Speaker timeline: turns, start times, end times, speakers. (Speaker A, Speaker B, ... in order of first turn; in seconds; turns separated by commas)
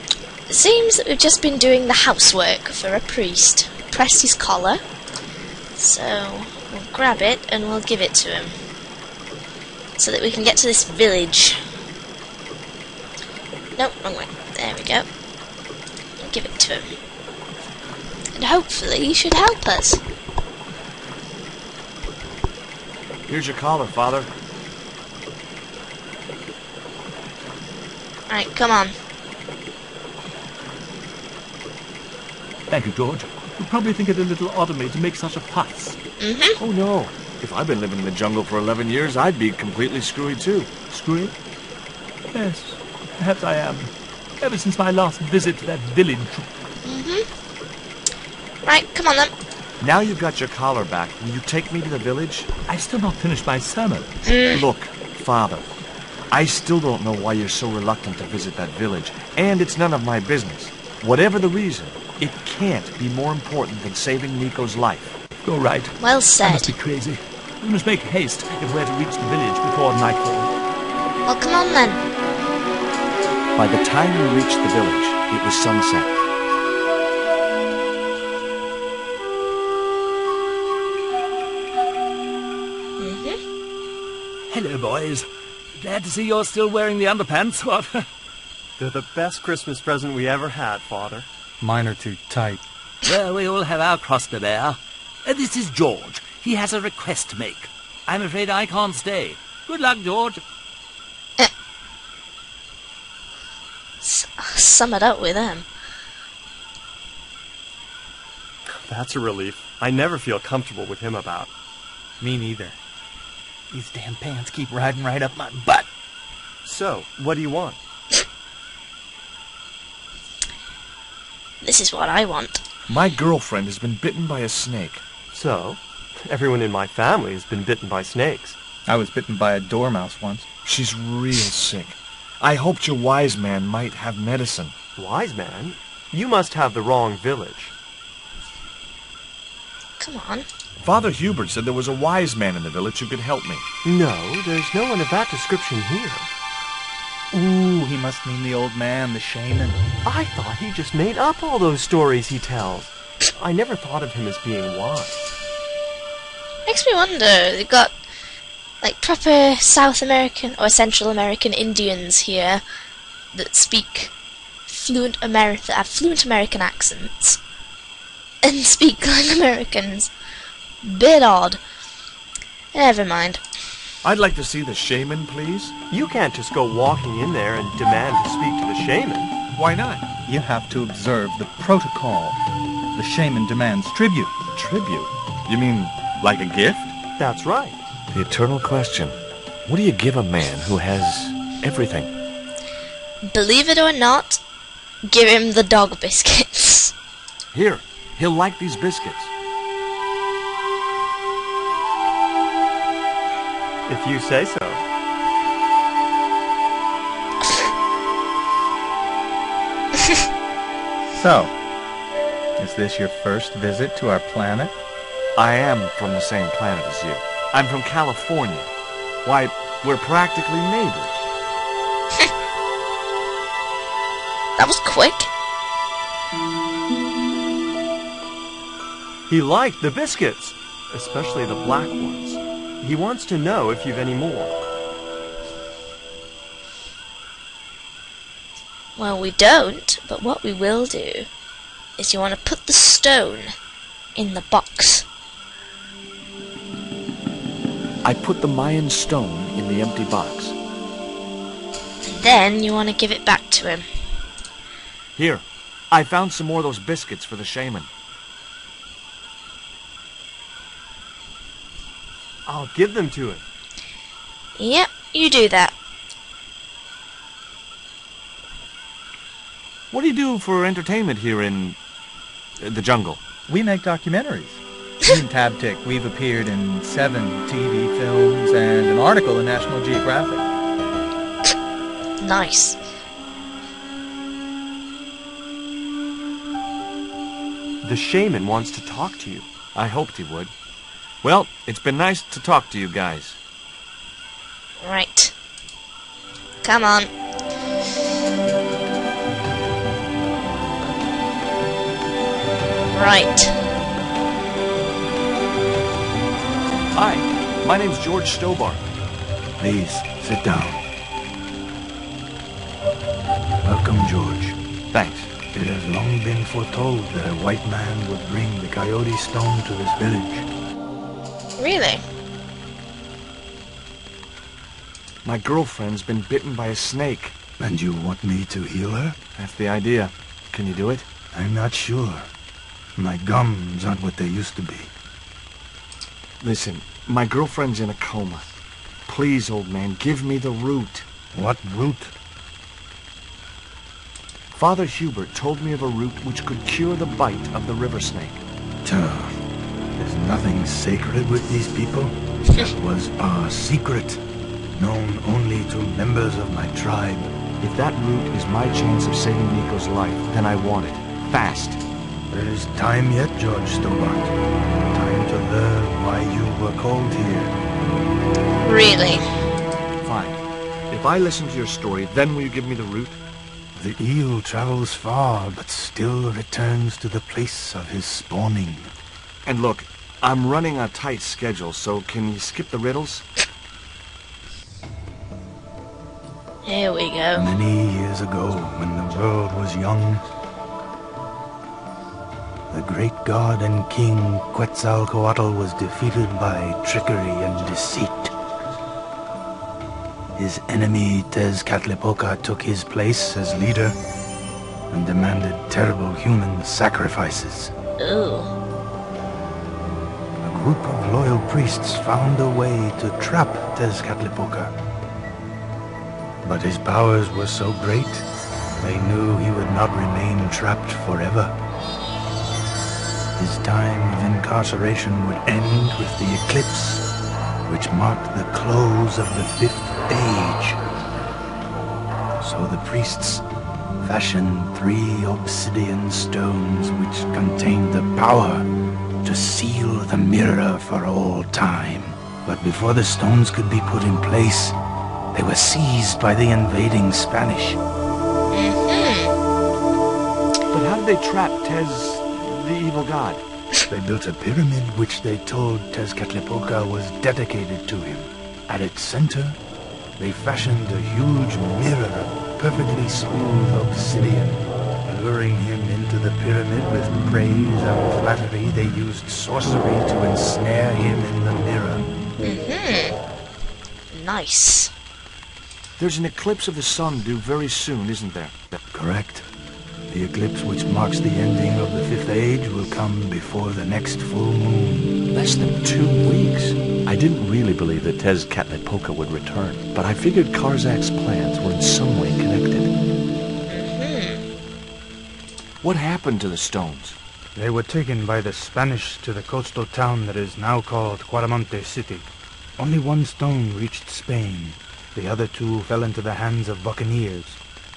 Speaker A: 0.5-4.8, Speaker A: 5.8-8.5, Speaker A: 10.0-11.6, Speaker A: 13.8-15.1, Speaker A: 16.2-16.9, Speaker A: 18.3-20.0, Speaker B: 23.3-24.3, Speaker A: 28.3-28.9, Speaker C: 32.7-36.0, Speaker A: 36.2-36.6, Speaker B: 36.6-40.7, Speaker C: 41.0-41.3, Speaker C: 42.3-46.5, Speaker A: 46.8-47.2, Speaker A: 48.6-49.3, Speaker B: 49.8-52.5, Speaker C: 52.7-54.1, Speaker A: 54.2-54.6, Speaker B: 54.5-55.6, Speaker B: 56.3-65.2, Speaker C: 65.4-70.5, Speaker A: 66.0-66.7, Speaker A: 71.2-72.0, Speaker B: 73.5-76.2, Speaker A: 83.0-83.4, Speaker C: 84.5-88.1, Speaker D: 88.8-91.3, Speaker E: 91.6-92.6, Speaker C: 93.0-100.4, Speaker A: 104.0-105.7, Speaker D: 108.7-111.5, Speaker E: 112.2-112.7, Speaker E: 113.7-115.8, Speaker D: 116.6-117.8, Speaker A: 121.6-122.6, Speaker B: 122.9-125.0, Speaker D: 125.3-128.6, Speaker F: 128.9-130.1, Speaker B: 130.6-134.7, Speaker D: 134.9-137.7, Speaker A: 140.0-140.5, Speaker B: 140.8-143.6, Speaker D: 143.8-146.3, Speaker E: 147.3-149.8, Speaker D: 150.0-155.2, Speaker A: 156.7-157.9, Speaker A: 158.8-162.6, Speaker A: 163.3-164.1, Speaker A: 164.7-167.4, Speaker A: 168.4-170.1, Speaker A: 170.8-171.6, Speaker A: 172.7-173.4, Speaker B: 174.0-175.7, Speaker D: 175.9-179.3, Speaker B: 179.5-180.1, Speaker F: 180.2-182.3, Speaker F: 182.9-184.3, Speaker B: 184.5-186.9, Speaker D: 187.2-187.8, Speaker B: 188.1-192.1, Speaker A: 193.3-194.4, Speaker A: 195.1-196.9, Speaker B: 197.5-199.3, Speaker D: 203.8-204.8, Speaker F: 211.2-211.5, Speaker F: 212.6-214.7, Speaker B: 215.3-218.7, Speaker B: 219.2-221.3, Speaker A: 224.6-225.3, Speaker D: 229.3-234.6, Speaker A: 238.9-241.3, Speaker A: 242.0-243.5, Speaker A: 244.2-245.1, Speaker B: 248.0-250.6, Speaker A: 252.0-253.8, Speaker B: 255.2-257.9, Speaker D: 262.4-263.4, Speaker A: 264.6-265.8, Speaker B: 269.9-271.8, Speaker B: 272.6-273.2, Speaker F: 273.5-274.2, Speaker F: 275.2-276.9, Speaker A: 282.2-282.8, Speaker D: 287.8-289.5, Speaker B: 289.7-290.5, Speaker B: 291.2-293.4, Speaker A: 294.8-295.3, Speaker A: 296.6-297.1, Speaker A: 302.9-303.5, Speaker B: 306.9-308.8, Speaker E: 309.6-310.8, Speaker E: 313.6-314.6, Speaker B: 314.9-315.3, Speaker E: 315.5-320.5, Speaker A: 321.6-322.0, Speaker B: 325.2-327.3, Speaker E: 327.6-329.2, Speaker B: 329.4-331.1, Speaker E: 331.3-332.3, Speaker E: 333.0-334.9, Speaker B: 336.4-338.4, Speaker B: 339.1-341.0, Speaker E: 341.3-342.1, Speaker B: 344.5-348.4, Speaker E: 348.8-349.3, Speaker E: 350.0-354.2, Speaker E: 354.8-357.3, Speaker B: 357.6-361.8, Speaker E: 362.3-364.3, Speaker E: 364.9-367.6, Speaker A: 368.6-369.2, Speaker B: 370.0-373.2, Speaker E: 373.8-378.9, Speaker B: 379.4-383.2, Speaker A: 386.6-387.5, Speaker E: 387.3-390.2, Speaker E: 392.7-398.3, Speaker E: 400.3-404.0, Speaker E: 404.9-407.7, Speaker A: 408.0-408.5, Speaker E: 410.4-414.7, Speaker E: 416.4-418.2, Speaker E: 418.8-421.5, Speaker E: 423.4-427.0, Speaker E: 427.6-430.8, Speaker E: 432.4-433.4, Speaker E: 434.0-438.7, Speaker E: 439.2-444.8, Speaker E: 445.3-447.8, Speaker A: 448.5-449.3, Speaker B: 450.7-453.4, Speaker E: 453.9-459.6, Speaker E: 460.2-472.1, Speaker A: 472.4-473.2, Speaker A: 474.1-474.9, Speaker B: 476.0-478.8, Speaker E: 478.9-479.5, Speaker E: 480.1-485.1, Speaker B: 485.3-492.9, Speaker A: 493.7-494.4, Speaker B: 495.8-497.2, Speaker E: 497.5-502.3, Speaker E: 502.8-507.6